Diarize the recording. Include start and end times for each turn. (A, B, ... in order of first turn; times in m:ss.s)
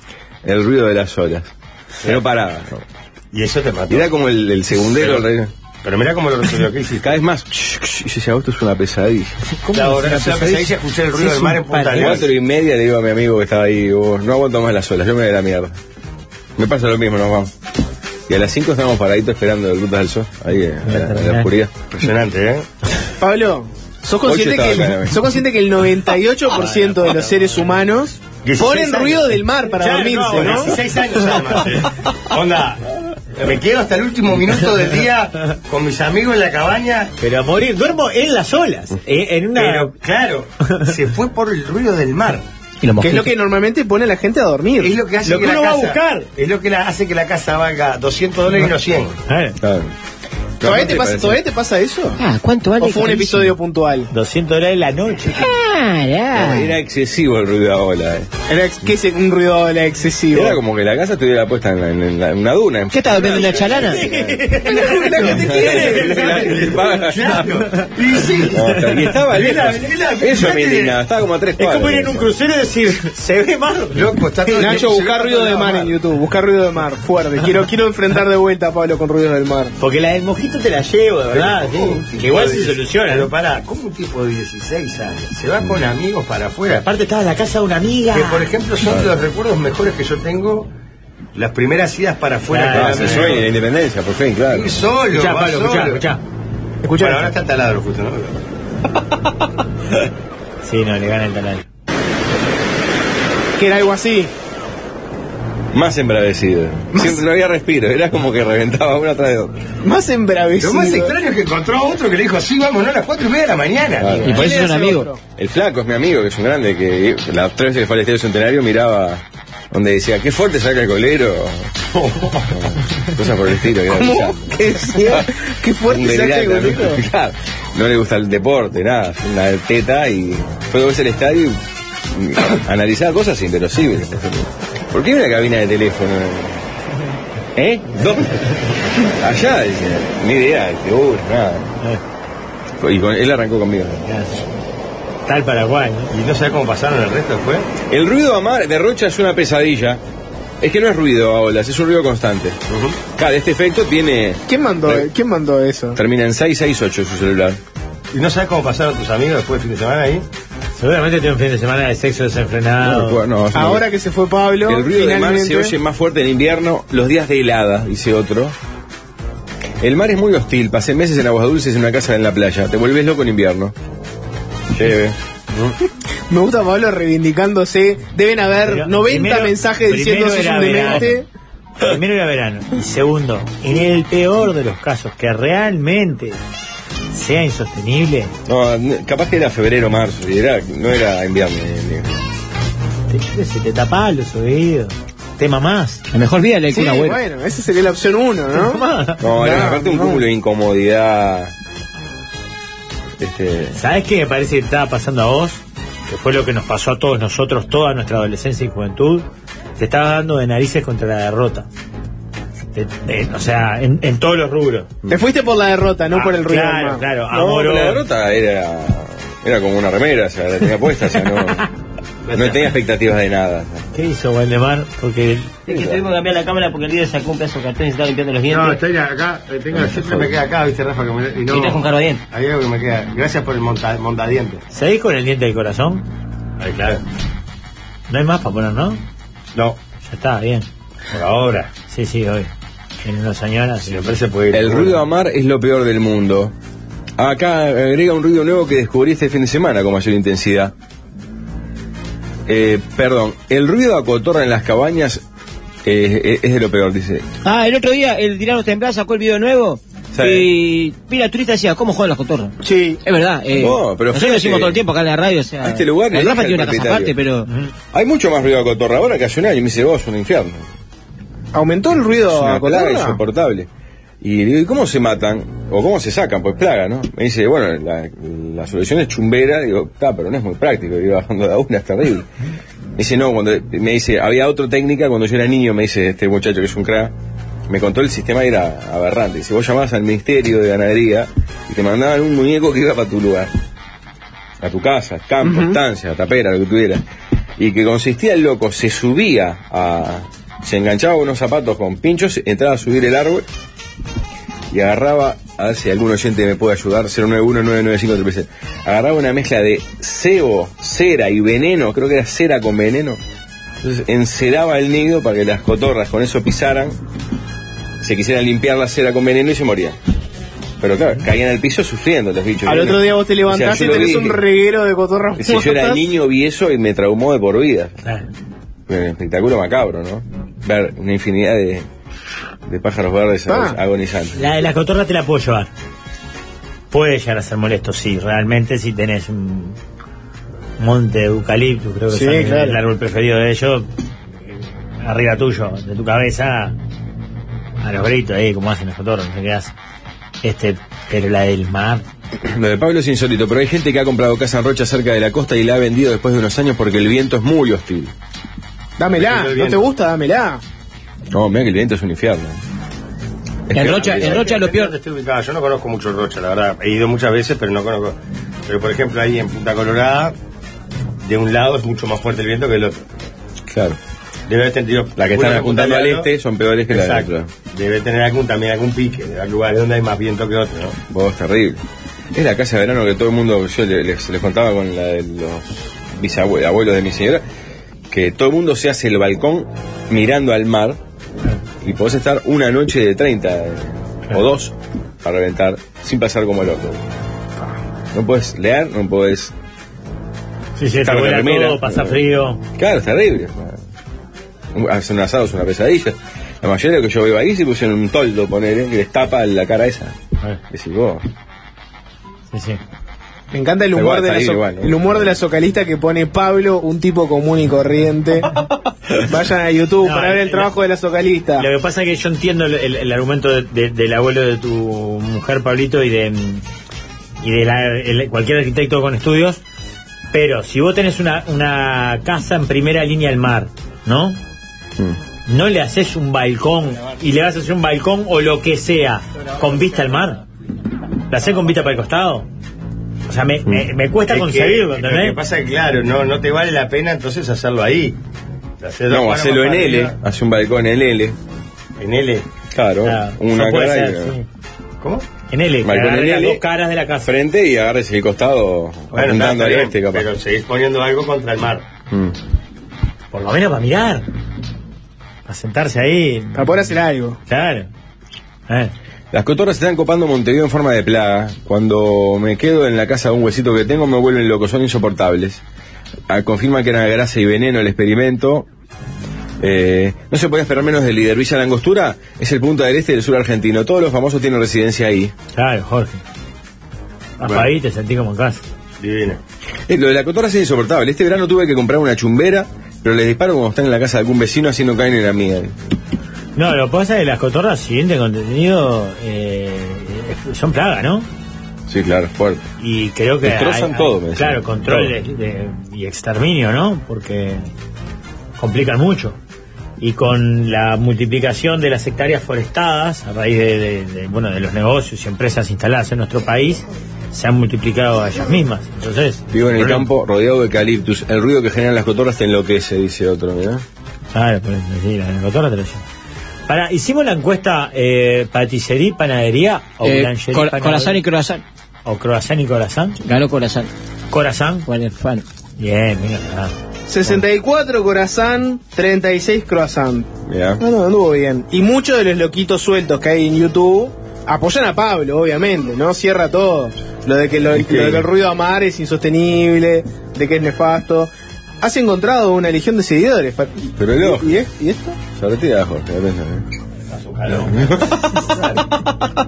0:00.4-0:01.5 A
0:02.0-0:02.8 A
0:03.3-0:04.1 B
0:03.9-0:05.5 A
0:04.9-0:05.3 B
0:05.8-0:07.1 B
0:07.0-0:09.4 A
0:09.6-0:12.1 C
0:09.7-0:12.3 B
0:11.9-0:15.8 A
0:16.6-0:17.5 A
0:18.3-0:21.7 A
0:20.9-0:21.5 C
0:21.9-0:22.7 B
0:23.2-0:30.8 D
0:24.2-0:25.3 A
0:26.5-0:27.6 C
0:28.4-0:29.4 B
0:29.8-0:31.2 C
0:30.3-0:32.8 B
0:33.4-0:37.1 B
0:37.2-0:39.9 C
0:39.6-0:42.4 B
0:42.8-0:43.3 E
0:43.0-0:44.9 D
0:44.8-0:49.2 B
0:45.2-0:46.3 C
0:49.3-0:49.6 C
0:49.6-0:49.9 A
0:50.6-0:51.4 A
0:50.6-0:52.2 D
0:52.2-0:53.6 E
0:52.8-0:54.1 D
0:54.1-0:55.5 C
0:55.4-0:56.7 E
0:56.3-0:58.3 A
0:58.5-1:00.6 D
1:00.3-1:04.4 A
1:02.9-1:04.0 E
1:03.9-1:06.7 C
1:04.7-1:06.0 D
1:05.2-1:08.7 B
1:05.2-1:07.6 A
1:08.5-1:12.3 A
1:08.7-1:09.0 C
1:09.3-1:11.0 B
1:11.6-1:14.8 C
1:13.9-1:16.0 B
1:14.6-1:19.7 D
1:19.8-1:23.3 C
1:21.3-1:26.9 B
1:26.8-1:28.5 C
1:28.1-1:30.7 B
1:31.4-1:33.5 B
1:32.5-1:33.4 C
1:32.7-1:34.8 A
1:34.5-1:36.0 B
1:35.1-1:36.2 C
1:36.9-1:37.2 C
1:37.0-1:38.4 B
1:40.6-1:41.6 C
1:43.6-1:44.3 D
1:45.7-1:49.6 A
1:49.8-1:51.1 D
1:50.6-1:54.2 B
1:54.0-1:54.4 A
1:54.2-1:55.1 E
1:54.2-1:55.2 D
1:55.4-2:01.7 A
2:02.5-2:05.3 A
2:03.9-2:07.0 D
2:05.8-2:16.6 A
2:17.6-2:21.7 A
2:22.8-2:24.1 A
2:24.1-2:24.4 C
2:25.3-2:26.1 C
2:26.1-2:27.7 B
2:27.9-2:30.0 A
2:30.6-2:32.6 A
2:32.7-2:33.0 B
2:33.2-2:35.1 A
2:34.5-2:36.0 D
2:36.0-2:37.6 A
2:38.1-2:40.3 B
2:40.8-2:43.2 C
2:42.8-2:43.8 A
2:43.5-2:45.7 D
2:44.6-2:48.6 A
2:49.8-2:53.8 A
2:54.7-2:55.2 A
2:56.3-3:01.3 D
2:58.7-3:01.2 C
3:01.8-3:06.4 C
3:07.1-3:08.3 C
3:08.5-3:12.1 A
3:13.1-3:16.0 C
3:16.1-3:17.2 E
3:16.7-3:20.2 D
3:18.5-3:19.4 C
3:19.2-3:21.5 A
3:23.2-3:23.8 A
3:23.8-3:29.3 C
3:29.8-3:31.7 C
3:32.7-3:34.9 C
3:35.1-3:37.0 D
3:36.1-3:38.0 C
3:37.3-3:41.7 A
3:42.3-3:42.6 B
3:42.3-3:43.9 A
3:43.9-3:45.5 C
3:45.7-3:48.8 E
3:45.7-3:46.0 A
3:48.5-3:54.6 B
3:49.7-3:50.4 A
3:51.5-3:52.2 E
3:54.7-3:56.0 C
3:56.6-3:57.0 B
3:58.1-3:59.0 C
4:00.0-4:00.7 C
4:01.1-4:01.7 B
4:01.9-4:02.5 C
4:03.0-4:04.2 C
4:03.8-4:05.0 B
4:04.5-4:06.5 A
4:07.2-4:10.7 A
4:12.5-4:15.2 A
4:15.8-4:17.3 A
4:17.4-4:27.5 E
4:20.1-4:20.5 A
4:22.6-4:23.0 D
4:23.6-4:24.8 A
4:25.6-4:27.1 A
4:27.5-4:27.7 C
4:27.9-4:30.7 A
4:31.5-4:33.2 D
4:32.3-4:33.7 A
4:34.2-4:42.3 A
4:43.0-4:47.1 A
4:47.7-4:53.5 A
4:54.6-4:57.0 A
4:57.6-5:03.5 A
5:04.7-5:13.2 A
5:13.8-5:17.0 A
5:18.0-5:20.0 A
5:20.8-5:24.4 A
5:22.6-5:26.0 D
5:25.4-5:28.0 A
5:28.9-5:31.8 A
5:32.7-5:34.4 A
5:33.5-5:33.8 D
5:34.4-5:35.7 C
5:36.9-5:39.8 C
5:40.8-5:43.9 C
5:42.1-5:42.8 D
5:45.0-5:46.8 C
5:47.8-5:49.7 C
5:50.4-5:52.0 C
5:52.4-5:58.1 A
5:59.0-6:00.6 D
5:59.2-5:59.9 B
6:01.3-6:02.6 A
6:03.7-6:04.4 A
6:03.7-6:05.0 E
6:03.9-6:10.3 B
6:11.2-6:13.1 B
6:13.7-6:14.0 A
6:14.5-6:16.3 B
6:15.2-6:17.5 A
6:16.9-6:21.0 B
6:21.1-6:21.8 A
6:22.3-6:27.4 A
6:28.1-6:31.0 A
6:31.8-6:37.0 A
6:38.1-6:39.5 A
6:40.8-6:42.6 C
6:41.0-6:42.2 A
6:42.8-6:43.8 A
6:44.7-6:50.2 A
6:50.7-6:51.2 A
6:52.5-6:52.8 C
6:53.5-6:58.6 D
6:53.9-6:55.3 A
6:59.2-7:01.7 D
7:00.0-7:00.7 C
7:01.6-7:06.6 C
7:07.4-7:09.6 C
7:10.3-7:14.4 C
7:15.5-7:20.4 C
7:21.3-7:22.5 C
7:23.3-7:25.4 C
7:24.3-7:28.2 B
7:28.8-7:30.1 B
7:29.1-7:31.4 A
7:32.0-7:32.5 B
7:32.7-7:34.4 A
7:33.0-7:34.5 C
7:35.0-7:35.3 B
7:35.5-7:37.3 C
7:35.8-7:36.6 A
7:37.2-7:40.3 A
7:39.1-7:41.9 B
7:42.1-7:42.4 A
7:43.3-7:44.3 C
7:45.5-7:46.9 C
7:46.6-7:47.4 D
7:47.5-7:47.9 C
7:49.3-7:55.6 A
7:56.3-7:58.7 A
7:59.6-8:05.3 A
8:05.5-8:06.2 C
8:07.4-8:08.6 C
8:07.4-8:07.7 B
8:09.0-8:09.4 B
8:09.9-8:15.7 A
8:16.6-8:21.3 C
8:21.9-8:22.7 A
8:22.8-8:27.7 C
8:23.4-8:25.1 A
8:28.6-8:29.4 C
8:30.0-8:40.1 C
8:39.5-8:43.8 A
8:44.3-8:46.0 C
8:46.7-8:51.2 C
8:50.0-8:51.6 E
8:52.0-8:53.2 C
8:53.2-8:53.9 E
8:54.3-8:54.9 C
8:54.9-8:55.4 E
8:55.8-8:56.7 C
8:57.1-9:00.3 D
9:00.5-9:00.8 A
9:00.8-9:15.2 D
9:07.7-9:08.3 A
9:14.0-9:14.6 A
9:15.3-9:16.7 A
9:17.1-9:18.9 B
9:17.6-9:18.2 A